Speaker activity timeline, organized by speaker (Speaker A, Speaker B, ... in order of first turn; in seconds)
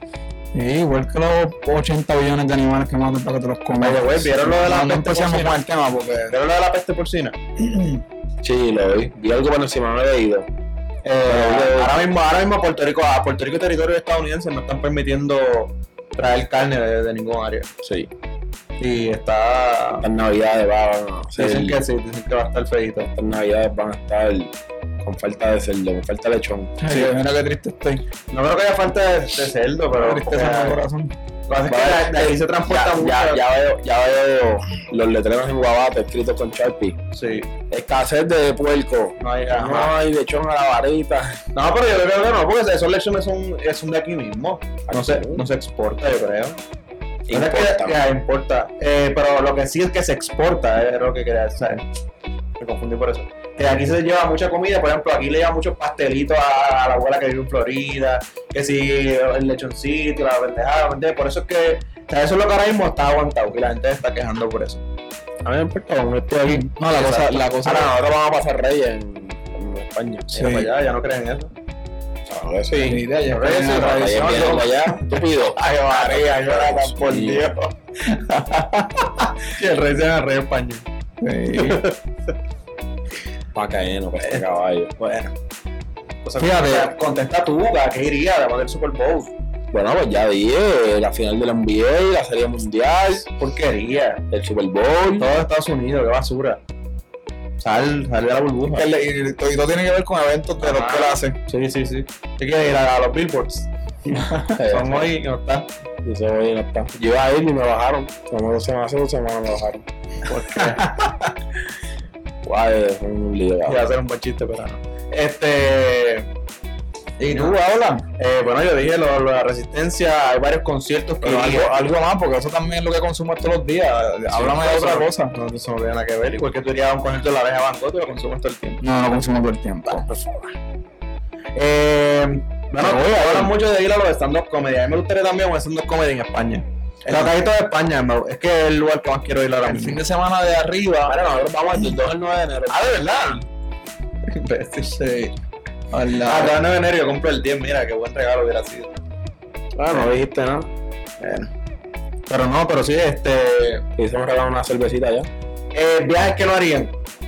Speaker A: 0.5-6.3, 26.8-28.0, 29.9-31.1, 66.5-67.9, 70.3-70.7, 72.8-74.7, 75.9-77.5, 78.0-79.3, 81.2-81.8, 86.4-86.9, 98.7-101.3, 104.2-104.5, 117.2-118.0, 121.2-125.3, 128.8-130.1, 132.8-133.5, 139.7-141.2, 144.8-145.3, 145.9-146.5
Speaker B: 3.8-5.6, 6.3-7.8, 11.1-17.7, 18.8-20.1, 21.4-23.1, 28.3-30.8, 31.5-33.4, 37.1-37.5, 39.2-40.0, 41.5-46.6, 47.3-51.9, 52.6-64.8, 66.9-67.5, 70.3-71.5, 73.3-77.6, 79.4-80.8, 81.5-82.0, 85.0-85.3, 86.2-89.3, 93.3-94.2, 95.2-96.6, 97.6-98.8, 100.6-105.7, 110.2-111.1, 113.6-116.3, 118.2-121.7, 124.3-128.8, 129.9-130.4, 131.6-140.0, 142.7-143.4, 144.3-145.0, 146.2-148.9, 151.2-151.5, 152.3-153.8, 155.7-156.9
Speaker C: 8.4-10.5, 11.2-12.0, 17.8-18.1, 20.0-21.8, 23.1-27.1, 31.7-37.0, 37.7-41.4, 44.9-45.4, 47.3-48.0, 65.4-66.6, 67.6-70.4, 72.3-73.0, 73.8-77.4, 83.5-84.9, 89.7-93.2, 94.3-95.3, 104.5-105.1, 106.0-109.8, 112.4-113.9, 141.1-142.9, 149.8-150.7, 153.9-155.3